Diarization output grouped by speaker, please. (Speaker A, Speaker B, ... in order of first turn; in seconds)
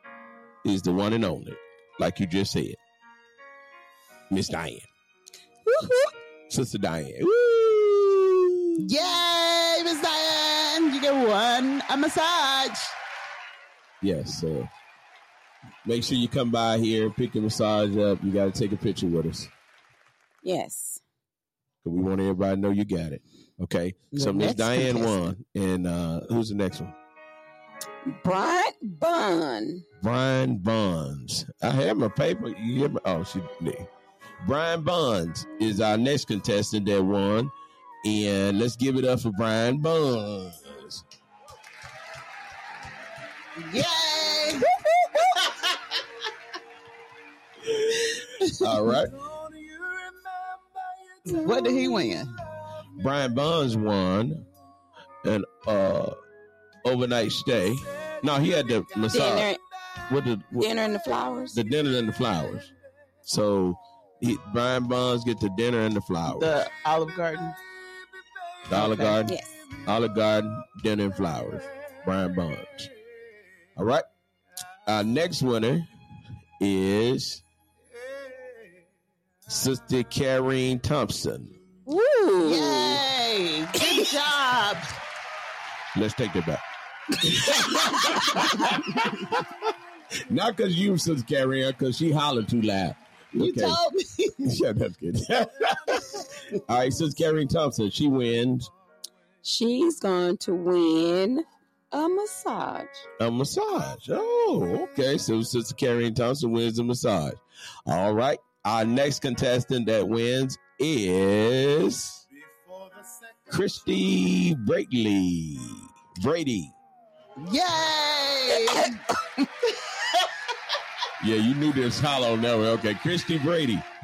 Speaker A: 0.6-2.8, 4.3-4.9, 6.5-8.8, 14.0-14.7, 15.8-19.5, 21.8-26.9, 30.0-33.9, 34.4-37.5, 38.0-41.0, 47.7-49.2, 53.0-54.5, 55.2-56.1, 56.8-59.5, 60.1-60.7, 61.5-62.7, 63.2-66.6, 68.7-72.9, 73.8-74.0, 74.8-75.9, 76.6-77.4, 79.5-81.5, 85.9-86.6, 87.1-89.5, 90.2-93.8, 94.4-98.7, 103.2-112.2, 113.5-116.7, 121.2-123.8
Speaker B: 5.7-6.1, 20.4-21.0, 28.1-29.8, 44.9-45.2, 59.1-59.6, 60.6-61.6, 81.9-83.0, 99.4-103.0, 118.5-118.9
Speaker C: 8.8-12.9, 24.1-25.2, 43.6-44.7, 45.3-45.9, 48.4-48.8, 51.3-52.4, 66.3-67.6, 68.7-69.2, 82.4-84.9, 88.1-88.8, 93.3-94.5, 117.4-119.0, 119.9-120.3